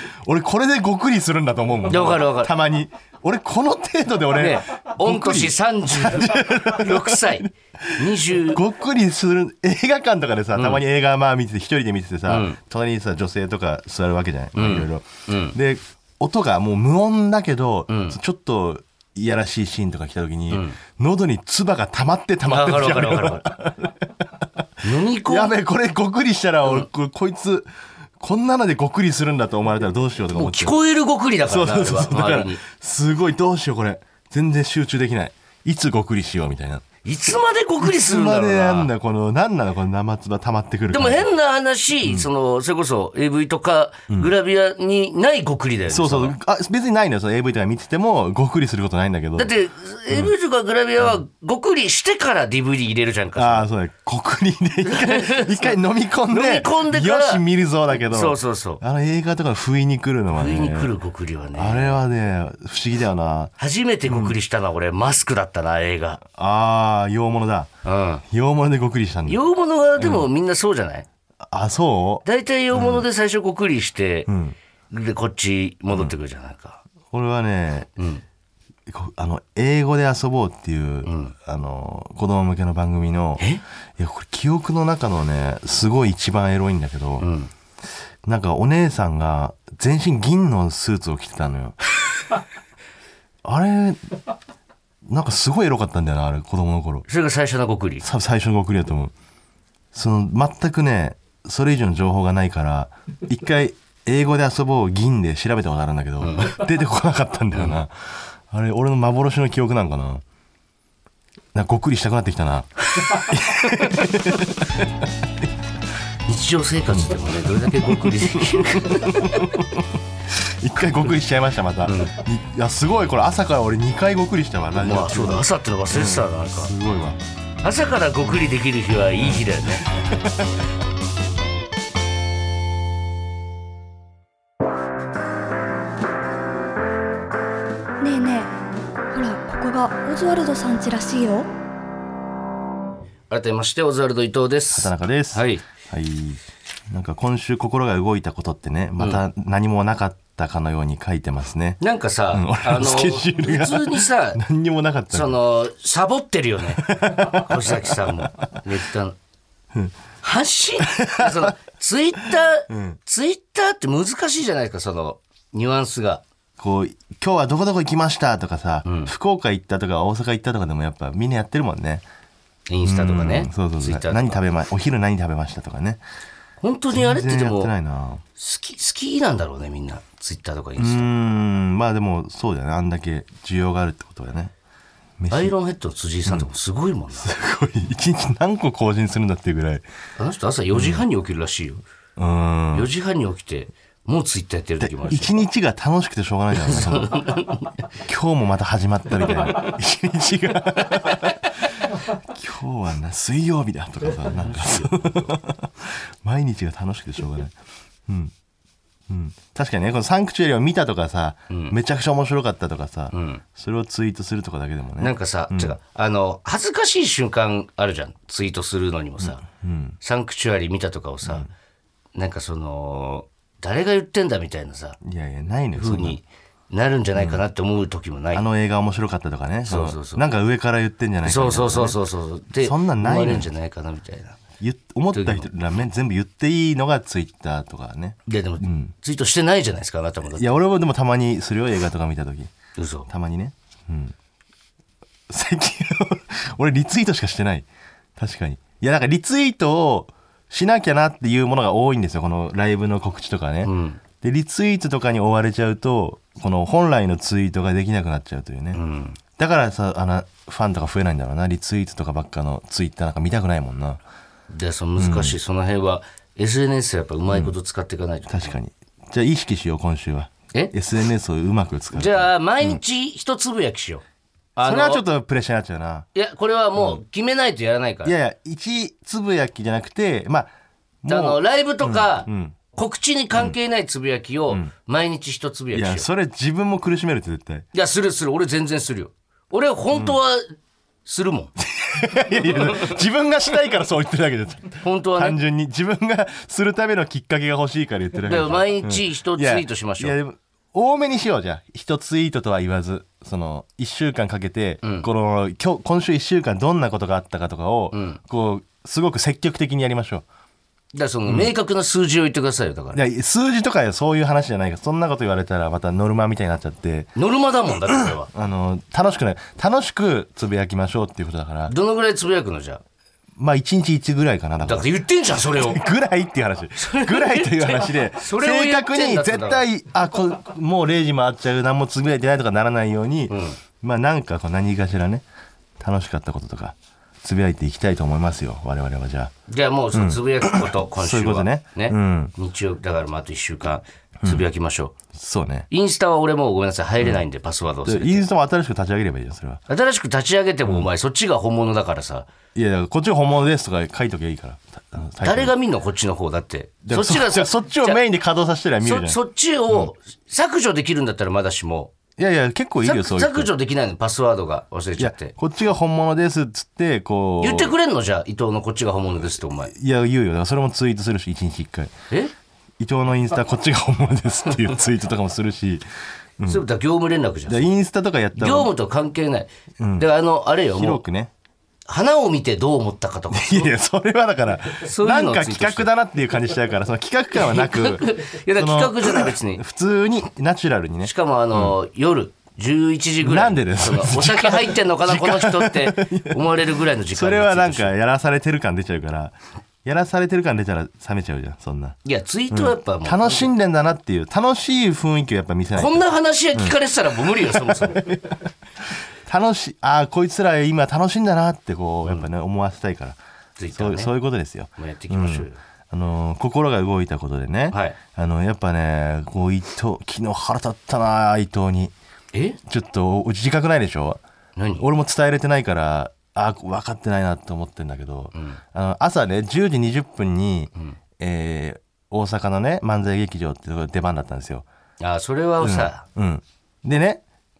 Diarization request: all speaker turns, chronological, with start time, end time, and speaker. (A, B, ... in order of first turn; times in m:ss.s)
0:00.2-0:27.7 A
0:01.9-0:02.5 B
0:04.3-0:08.6 B
0:10.5-0:10.8 B
0:12.3-0:12.6 B
0:14.5-0:15.6 B
0:17.9-0:18.2 B
0:20.5-0:20.8 B
0:22.5-0:23.6 B
0:24.8-0:25.5 B
0:28.2-0:30.8 A
0:30.3-0:32.6 B
0:31.4-0:36.9 A
0:37.0-0:38.9 B
0:37.8-0:41.3 A
0:40.9-0:46.4 B
0:45.9-0:49.5 A
0:49.4-0:53.7 B
0:53.4-1:00.9 A
0:54.9-0:55.7 B
0:56.3-0:57.4 B
0:58.1-0:58.8 B
1:00.4-1:02.0 B
1:01.6-1:03.5 A
1:03.6-1:06.2 B
1:04.1-1:04.4 A
1:06.2-1:07.7 A
1:07.8-1:08.2 B
1:08.3-1:09.4 A
1:09.3-1:11.1 B
1:10.0-1:10.3 A
1:11.4-1:13.0 A
1:12.2-1:14.3 B
1:14.3-1:14.6 A
1:14.9-1:16.8 B
1:17.1-1:17.9 A
1:18.0-1:18.2 B
1:18.9-1:23.4 A
1:21.0-1:21.4 B
1:24.0-1:27.3 A
1:27.2-1:27.5 B
1:28.2-1:31.8 A
1:33.4-1:34.0 A
1:35.1-1:37.0 A
1:37.1-1:38.0 B
1:38.0-1:39.1 A
1:39.9-1:50.2 A
1:46.2-1:46.6 B
1:51.5-1:54.9 A
1:56.3-1:59.6 B
1:56.9-2:07.2 A
2:01.8-2:02.2 B
2:04.8-2:06.7 B
2:07.6-2:10.0 B
2:09.2-2:10.5 A
2:18.0-2:18.6 C
2:19.1-2:21.5 C
2:23.3-2:25.6 B
2:24.7-2:31.8 A
2:31.8-2:34.4 B
2:32.3-2:35.4 A
2:35.1-2:39.2 B
2:36.8-2:38.2 A
2:40.2-2:46.2 B
2:40.9-2:41.5 A
2:42.7-2:43.0 A
2:46.6-2:52.0 A
2:48.8-2:49.1 B
2:52.7-2:54.4 B
2:52.8-2:56.0 A
2:56.6-2:57.7 B
2:56.9-2:58.2 A
2:58.4-3:01.1 B
3:00.8-3:04.5 A
3:05.2-3:05.5 A
3:05.3-3:07.3 B
3:07.2-3:09.8 A
3:10.2-3:11.8 B
3:10.7-3:11.0 A
3:12.2-3:12.9 A
3:12.7-3:15.4 B
3:14.8-3:17.3 A
3:16.6-3:17.8 B
3:18.1-3:27.5 A
3:24.4-3:25.1 B
3:28.1-3:28.3 A
3:29.1-3:35.8 A
3:31.5-3:31.8 B
3:33.1-3:33.4 B
3:35.0-3:39.4 B
3:39.2-3:40.0 A
3:40.0-3:41.5 B
3:42.1-3:45.0 B
3:45.0-3:46.2 A
3:45.8-3:48.4 B
3:47.2-3:47.4 A
3:48.3-3:52.0 A
3:49.7-3:50.2 B
3:51.2-3:54.4 B
3:52.6-3:53.5 A
3:54.6-3:58.9 A
3:55.1-3:55.5 B
3:58.3-4:00.6 B
4:00.3-4:02.5 A
4:02.8-4:03.1 B
4:03.1-4:04.1 A
4:05.3-4:18.8 A
4:13.6-4:14.0 B
4:18.7-4:19.2 B
4:19.4-4:24.0 A
4:24.5-4:28.6 B
4:25.0-4:25.4 A
4:28.3-4:32.8 A
4:31.9-4:34.0 B
4:34.6-4:35.0 B
4:34.6-4:36.1 A
4:36.1-4:38.2 B
4:38.0-4:40.5 A
4:41.0-4:42.6 A
4:41.1-4:46.1 B
4:45.7-4:47.7 A
4:47.7-4:51.5 B
4:51.6-5:10.2 A
4:52.5-4:53.0 B
4:54.8-4:55.4 B
4:58.2-5:00.2 B
5:04.8-5:05.1 B
5:07.9-5:08.2 B
5:10.9-5:13.0 B
5:11.3-5:11.5 A
5:12.9-5:17.1 A
5:17.2-5:18.3 B
5:17.9-5:21.7 A
5:21.7-5:22.8 B
5:23.4-5:24.9 A
5:24.6-5:25.8 B
5:25.4-5:35.2 A
5:26.8-5:29.6 B
5:33.3-5:33.6 B
5:35.8-5:39.3 A
5:39.5-5:45.0 B
5:39.9-5:42.3 A
5:45.1-5:45.7 A
5:45.7-5:48.2 B
5:47.8-5:49.6 A
5:49.7-5:52.3 B
5:52.6-5:55.5 A
5:55.2-5:58.0 B
5:56.9-5:59.2 A
5:58.8-6:01.9 B
6:02.2-6:03.5 A
6:02.8-6:05.4 B
6:05.0-6:07.7 A
6:07.4-6:09.7 B
6:09.7-6:11.9 A
6:12.8-6:15.8 A
6:16.5-6:17.7 B
6:17.5-6:18.7 A
6:18.4-6:21.0 B
6:19.8-6:20.1 A
6:20.7-6:21.3 A
6:21.9-6:23.7 B
6:23.3-6:31.8 A
6:24.8-6:25.9 B
6:27.3-6:29.6 B
6:31.0-6:37.9 B
6:33.2-6:36.5 A
6:37.1-6:42.0 A
6:42.0-6:43.5 B
6:42.5-6:46.8 A
6:45.8-6:48.1 B
6:47.3-6:53.2 A
6:53.6-6:54.1 B
6:53.7-7:01.9 A
6:54.8-6:55.6 B
6:57.7-6:58.0 B
7:02.3-7:02.6 B
7:02.7-7:04.2 A
7:04.6-7:04.9 B
7:04.8-7:14.6 A
7:08.4-7:08.6 B
7:15.0-7:16.0 B
7:15.6-7:17.2 A